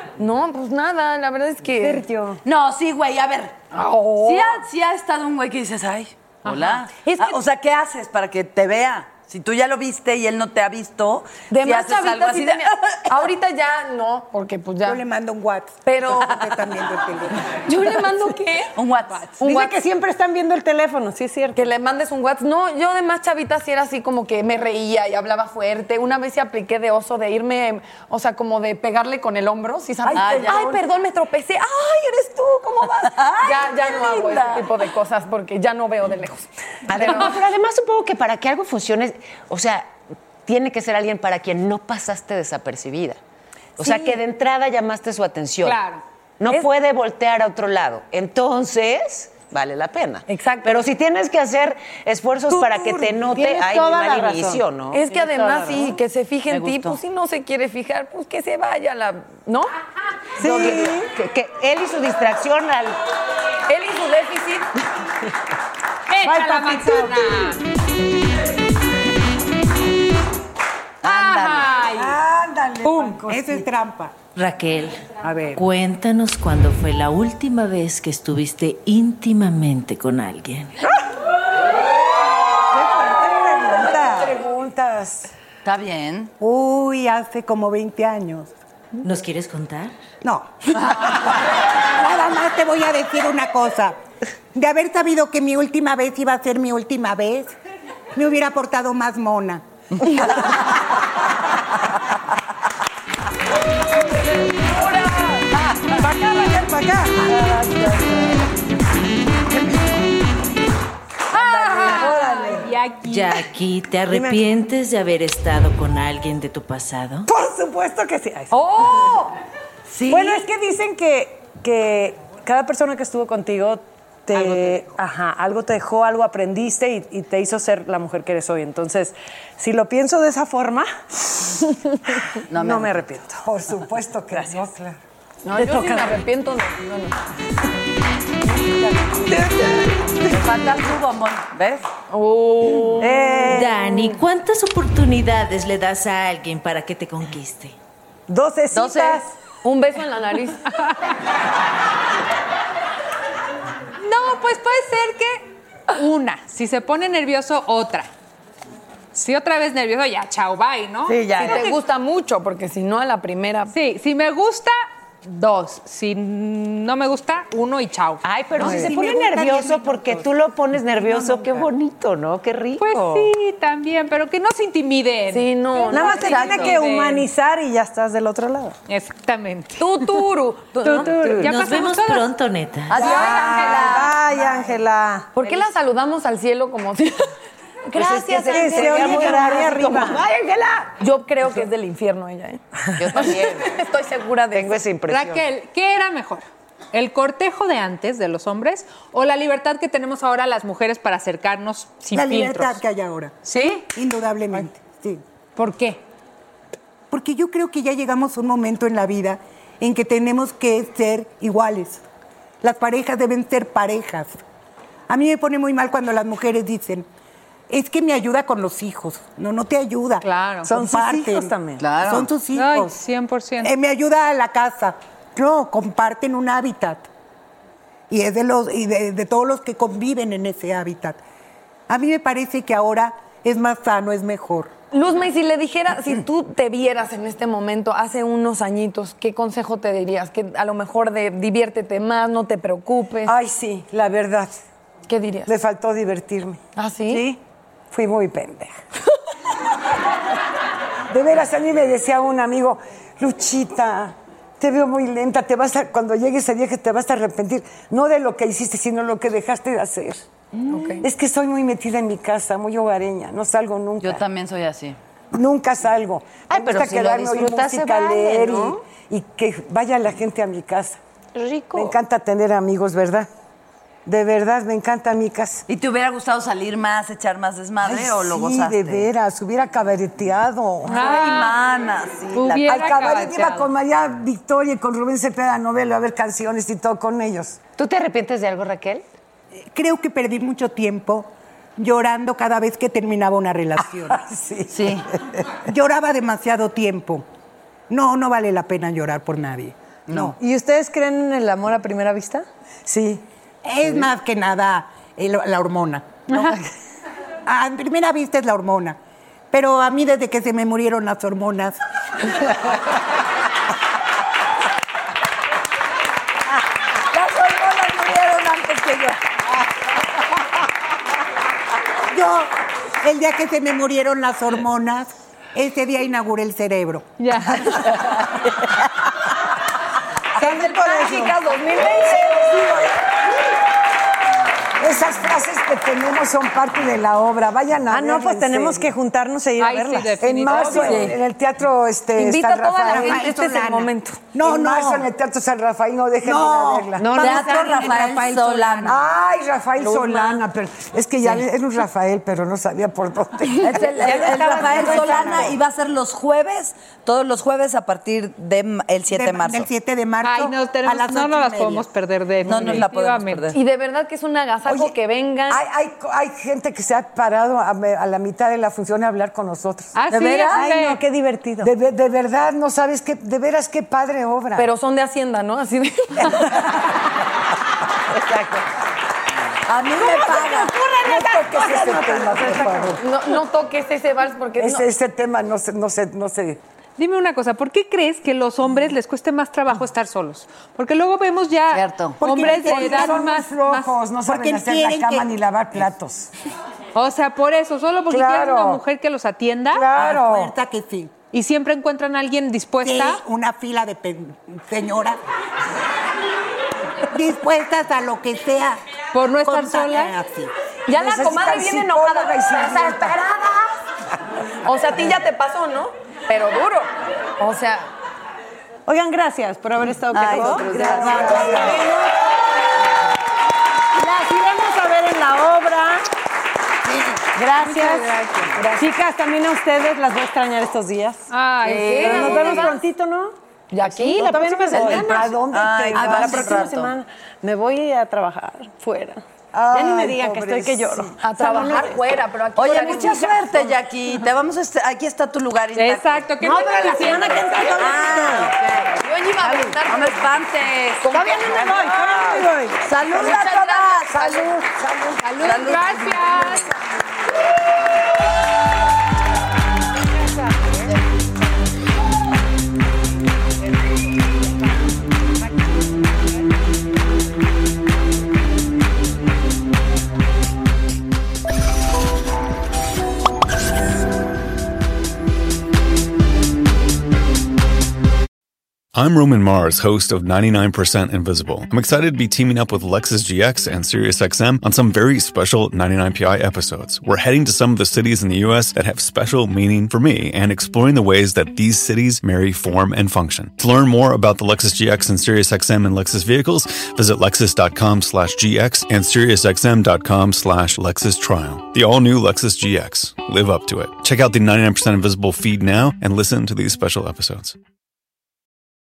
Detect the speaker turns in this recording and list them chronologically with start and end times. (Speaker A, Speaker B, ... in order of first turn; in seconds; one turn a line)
Speaker A: 0.2-2.0
Speaker B: 1.8-2.4
Speaker C: 2.4-3.5
Speaker A: 3.7-4.6
Speaker C: 4.2-13.1
Speaker D: 6.5-6.7
Speaker A: 7.0-7.4
Speaker A: 11.5-15.0
Speaker E: 14.8-17.4
Speaker A: 15.8-16.4
Speaker A: 17.6-18.8
Speaker C: 18.8-19.4
Speaker B: 19.4-21.7
Speaker A: 19.4-19.7
Speaker A: 21.6-37.4
Speaker F: 30.1-30.6
Speaker C: 30.1-30.6
Speaker C: 33.1-33.7
Speaker B: 33.9-34.5
Speaker G: 36.9-39.9
Speaker G: 40.5-43.2
Speaker G: 43.8-45.8
Speaker A: 43.8-44.2
Speaker D: 45.6-46.0
Speaker G: 46.4-55.0
Speaker A: 50.3-50.8
Speaker B: 52.5-55.9
Speaker A: 54.9-59.7
Speaker C: 56.5-57.0
Speaker G: 60.4-63.0
Speaker B: 60.4-61.0
Speaker A: 63.7-64.7
Speaker D: 66.1-67.6
Speaker F: 66.3-67.3
Speaker D: 71.0-72.1
Speaker C: 71.0-71.7
Speaker F: 71.8-73.7
Speaker E: 73.3-74.2
Speaker H: 74.3-80.8
Speaker B: 75.2-75.6
Speaker F: 82.7-85.3
Speaker C: 85.6-86.3
Speaker E: 86.4-88.5
Speaker H: 89.0-90.0
Speaker E: 90.2-91.3
Speaker E: 92.0-94.0
Speaker E: 94.5-97.5
Speaker E: 98.2-99.7
Speaker B: 106.0-108.4
Speaker D: 111.3-113.4
Speaker B: 111.6-112.6
Speaker H: 113.0-117.3
Speaker B: 114.1-114.4
Speaker B: 117.3-118.5
Speaker A: 118.5-119.3
Speaker B: 120.1-131.6
Speaker C: 132.5-132.9
Speaker B: 132.6-133.4
Speaker F: 133.4-135.0
Speaker A: 135.4-137.2
Speaker B: 135.5-136.2
Speaker B: 139.3-139.9
Speaker C: 140.2-141.9
Speaker A: 142.1-143.3
Speaker B: 143.0-144.0
Speaker H: 143.4-147.8
Speaker B: 148.3-149.3
Speaker C: 148.7-149.2
Speaker A: 149.6-150.7
Speaker D: 154.0-158.1
Speaker D: 159.1-161.5
Speaker C: 161.1-161.6
Speaker A: 161.3-163.7
Speaker D: 163.7-168.7
Speaker G: 168.2-173.3
Speaker E: 168.6-170.0
Speaker D: 172.8-177.3
Speaker A: 175.3-176.8
Speaker B: 175.9-178.8
Speaker D: 178.9-179.8
Speaker A: 179.8-181.2
Speaker B: 180.8-181.6
Speaker H: 181.4-183.2
Speaker D: 181.4-182.3
Speaker G: 182.9-184.1
Speaker D: 182.9-184.1
Speaker B: 183.0-185.3
Speaker A: 185.3-187.3
Speaker G: 187.9-190.9
Speaker A: 187.9-189.7
Speaker B: 187.9-190.2
Speaker A: 191.0-192.6
Speaker G: 193.1-193.6
Speaker A: 193.2-194.8
Speaker C: 193.2-193.5
Speaker G: 194.5-195.5
Speaker D: 195.1-202.8
Speaker E: 202.1-203.4
Speaker D: 203.5-203.8
Speaker E: 203.9-205.2
Speaker D: 205.6-206.0
Speaker E: 207.1-212.0
Speaker E: 212.6-214.4
Speaker E: 215.1-217.1
Speaker E: 217.7-220.2
Speaker D: 220.2-220.7
Speaker B: 220.6-221.9
Speaker E: 220.8-222.9
Speaker C: 221.8-222.3
Speaker D: 222.5-223.7
Speaker E: 223.6-227.1
Speaker E: 228.1-231.2
Speaker E: 231.9-234.7
Speaker A: 234.9-243.3
Speaker F: 243.2-244.6
Speaker A: 245.1-245.5
Speaker F: 245.5-246.6
Speaker A: 246.8-247.2
Speaker F: 247.9-248.7
Speaker F: 251.1-260.3
Speaker A: 260.7-261.0
Speaker F: 261.0-264.2
Speaker C: 264.0-265.0
Speaker F: 265.3-271.0
Speaker G: 266.5-268.8
Speaker F: 271.7-273.3
Speaker F: 274.1-275.6
Speaker C: 275.7-279.1
Speaker F: 277.8-281.2
Speaker D: 280.9-281.6
Speaker C: 280.9-282.6
Speaker D: 282.3-283.7
Speaker F: 282.6-287.6
Speaker G: 287.8-289.0
Speaker E: 289.7-294.2
Speaker F: 293.8-295.4
Speaker C: 294.7-295.0
Speaker E: 295.6-297.2
Speaker E: 297.9-300.3
Speaker C: 300.1-300.3
Speaker B: 300.3-302.4
Speaker F: 302.9-303.3
Speaker E: 303.6-306.4
Speaker B: 306.3-306.6
Speaker E: 307.5-309.0
Speaker E: 309.5-311.8
Speaker E: 322.1-327.1
Speaker D: 327.2-328.2
Speaker D: 330.4-331.6
Speaker A: 330.4-332.4
Speaker B: 330.5-331.3
Speaker B: 332.2-332.7
Speaker F: 334.8-338.9
Speaker B: 337.9-341.2
Speaker D: 339.6-341.1
Speaker F: 340.2-343.6
Speaker A: 342.2-344.2
Speaker E: 342.9-345.1
Speaker F: 344.4-347.2
Speaker E: 346.3-346.6
Speaker G: 347.0-348.8
Speaker E: 347.2-348.9
Speaker C: 347.2-349.0
Speaker F: 348.9-355.5
Speaker G: 349.8-350.4
Speaker C: 353.8-359.7
Speaker A: 353.9-355.4
Speaker E: 354.2-355.2
Speaker E: 359.1-361.9
Speaker D: 360.2-363.5
Speaker C: 362.4-363.6
Speaker A: 363.5-365.6
Speaker F: 364.7-364.9
Speaker F: 365.5-370.0
Speaker D: 369.9-371.0
Speaker B: 370.1-371.7
Speaker F: 371.6-374.7
Speaker A: 374.6-376.5
Speaker C: 379.7-380.7
Speaker B: 380.0-383.0
Speaker F: 381.1-383.0
Speaker A: 383.0-384.8
Speaker F: 384.6-386.6
Speaker D: 387.0-393.9
Speaker C: 391.7-392.2
Speaker E: 392.2-393.2
Speaker F: 392.2-396.3
Speaker E: 394.3-395.3
Speaker D: 396.9-399.9
Speaker F: 398.1-398.8
Speaker F: 399.7-400.5
Speaker E: 400.0-401.2
Speaker D: 401.3-403.2
Speaker E: 402.8-405.2
Speaker E: 407.1-408.8
Speaker D: 409.1-410.2
Speaker E: 409.4-410.5
Speaker A: 410.9-413.7
Speaker F: 410.9-413.2
Speaker A: 414.6-417.9
Speaker B: 418.9-422.1
Speaker C: 420.1-421.8
Speaker F: 420.3-421.8
Speaker B: 423.9-426.1
Speaker E: 426.9-427.2
Speaker B: 427.3-431.3
Speaker D: 427.6-428.6
Speaker A: 428.6-428.8
Speaker D: 431.3-432.8
Speaker C: 431.7-432.5
Speaker A: 431.8-432.8
Speaker B: 431.8-442.0
Speaker A: 433.7-435.1
Speaker C: 434.8-436.9
Speaker F: 434.8-436.6
Speaker F: 439.6-441.1
Speaker A: 441.2-443.5
Speaker C: 442.6-454.3
Speaker D: 445.8-447.8
Speaker B: 446.4-448.5
Speaker A: 448.9-450.5
Speaker A: 451.0-451.7
Speaker B: 451.1-452.9
Speaker F: 453.0-455.7
Speaker A: 453.2-454.4
Speaker D: 455.2-456.7
Speaker C: 455.4-456.5
Speaker I: 478.9-507.6